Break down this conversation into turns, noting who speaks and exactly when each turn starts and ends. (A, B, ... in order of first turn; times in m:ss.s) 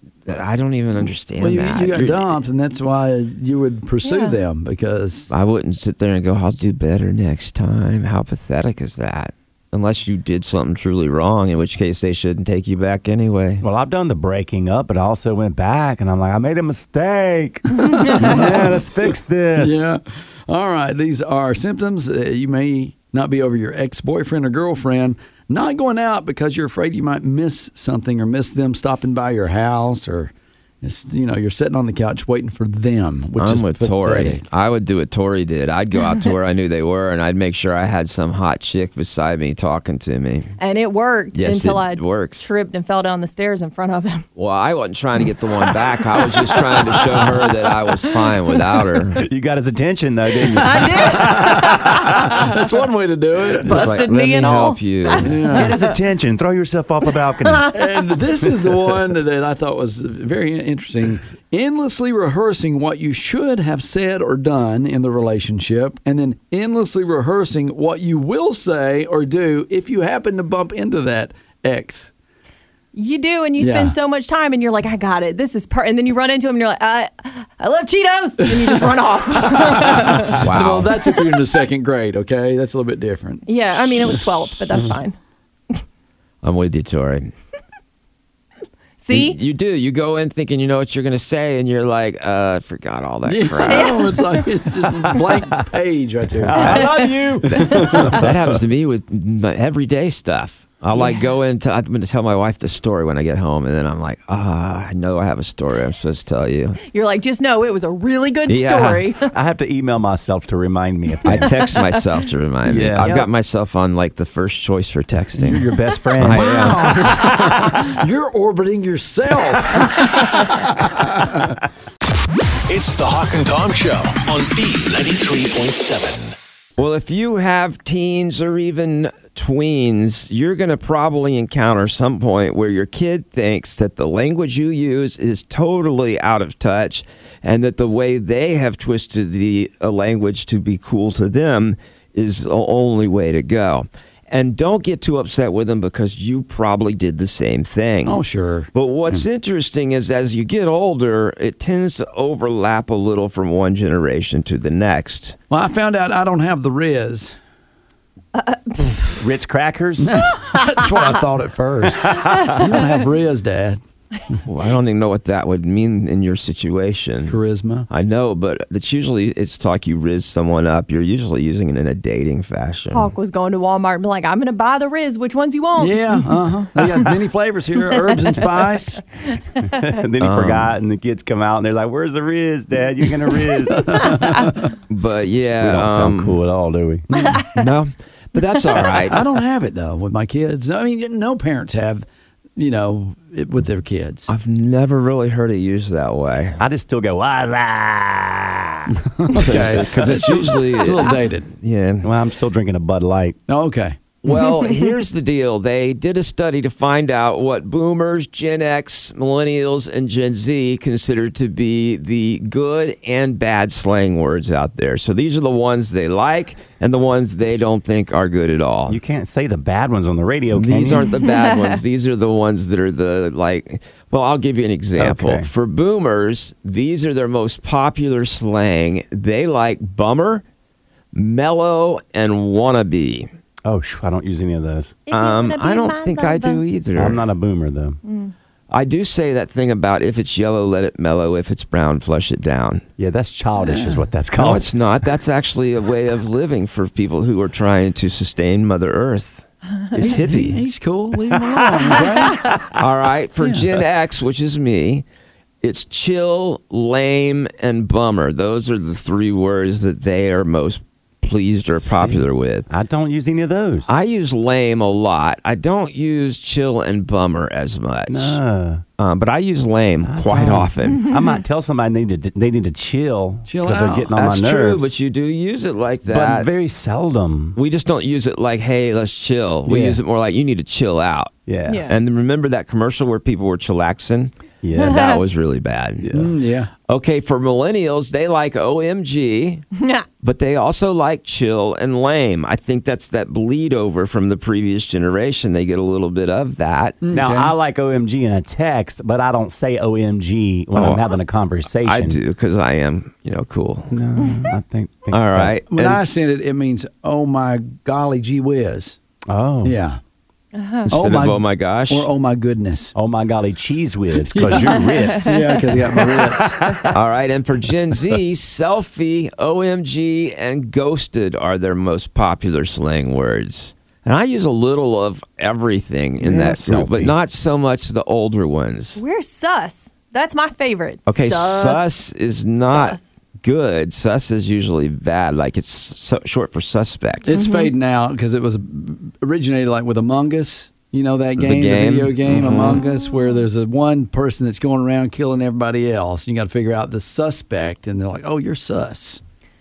0:00.3-0:02.4 A
0:01.4-0:05.3 B
0:04.0-0:04.4 C
0:05.3-0:13.6 A
0:13.6-0:19.9 D
0:17.9-0:18.9 B
0:19.6-0:34.4 B
0:33.4-0:40.5 A
0:40.6-0:44.2 C
0:41.3-0:42.5 A
0:44.4-0:49.2 A
0:49.2-0:52.4 D
0:50.5-0:52.5 C
0:51.3-0:54.0 B
0:53.6-0:55.9 C
0:53.6-0:55.3 A
0:55.2-0:55.7 B
0:55.4-0:57.8 D
0:57.7-1:12.1 B
1:12.9-1:20.4 C
1:13.6-1:13.9 B
1:18.4-1:23.5 B
1:20.3-1:20.9 A
1:23.5-1:25.2 C
1:26.4-1:27.3 A
1:29.0-1:29.4 C
1:29.1-1:34.1 A
1:33.2-1:36.9 B
1:33.6-1:34.5 C
1:36.4-1:38.6 D
1:36.6-1:38.0 C
1:37.4-1:37.7 B
1:37.5-1:46.8 A
1:40.9-1:41.3 C
1:46.9-1:49.3 C
1:48.5-1:49.1 A
1:49.3-1:51.5 D
1:51.2-1:57.3 A
1:52.6-1:53.1 D
1:53.0-1:53.3 C
1:55.4-1:57.9 D
1:56.3-2:01.6 B
2:02.7-2:06.3 E
2:06.8-2:28.2 A
2:28.0-2:29.2 B
2:28.7-2:35.4 A
2:35.5-2:37.3 B
2:39.1-2:40.2 D
2:40.0-2:43.8 B
2:44.4-2:47.4 A
2:47.3-2:47.9 B
2:47.9-2:53.1 A
2:52.9-2:56.3 C
2:55.8-2:59.0 B
2:59.6-3:04.4 D
3:00.2-3:00.7 A
3:03.7-3:04.7 B
3:04.9-3:06.3 A
3:05.6-3:07.1 D
3:07.4-3:09.2 A
3:09.1-3:12.0 B
3:12.6-3:14.3 B
3:14.3-3:16.6 A
3:16.6-3:19.9 D
3:19.1-3:21.5 B
3:19.3-3:22.1 A
3:22.0-3:23.4 D
3:23.5-3:24.0 B
3:24.2-3:39.0 A
3:38.9-3:41.1 D
3:40.5-3:50.4 A
3:45.0-3:45.5 D
3:51.1-3:53.3 A
3:53.6-3:55.0 D
3:55.1-3:56.6 C
3:55.1-3:57.2 A
3:57.0-3:58.0 D
3:58.0-3:58.3 C
3:58.7-4:02.8 A
4:03.0-4:04.7 D
4:03.6-4:04.0 B
4:04.4-4:10.6 A
4:10.0-4:12.6 B
4:11.3-4:12.8 D
4:12.8-4:15.0 A
4:13.4-4:13.7 B
4:15.6-4:22.7 A
4:21.9-4:23.9 D
4:23.9-4:28.4 A
4:28.1-4:28.8 D
4:29.0-4:31.1 A
4:30.0-4:34.9 D
4:33.5-4:34.1 B
4:34.1-4:36.5 A
4:36.0-4:37.6 D
4:37.6-4:41.3 A
4:39.6-4:40.0 D
4:41.5-4:41.8 D
4:41.7-4:42.0 C
4:41.8-4:46.0 A
4:44.6-4:45.1 D
4:44.8-4:45.2 C
4:46.0-4:46.3 D
4:46.1-4:46.7 B
4:46.9-4:49.6 A
4:49.8-4:50.0 C
4:50.2-4:57.0 A
4:57.0-4:57.5 B
4:57.1-5:02.2 D
5:00.7-5:01.1 A
5:01.8-5:04.0 A
5:03.9-5:05.5 D
5:05.1-5:06.0 A
5:05.7-5:09.0 B
5:09.3-5:09.8 D
5:09.6-5:10.0 B
5:10.5-5:10.9 C
5:10.9-5:12.1 A
5:10.9-5:12.9 B
5:12.9-5:16.9 D
5:14.3-5:16.8 B
5:14.6-5:16.0 C
5:16.9-5:29.0 A
5:26.2-5:27.1 D
5:29.0-5:31.9 C
5:31.1-5:37.3 A
5:32.6-5:33.1 C
5:37.2-5:49.2 B
5:37.3-5:37.7 C
5:41.4-5:42.8 A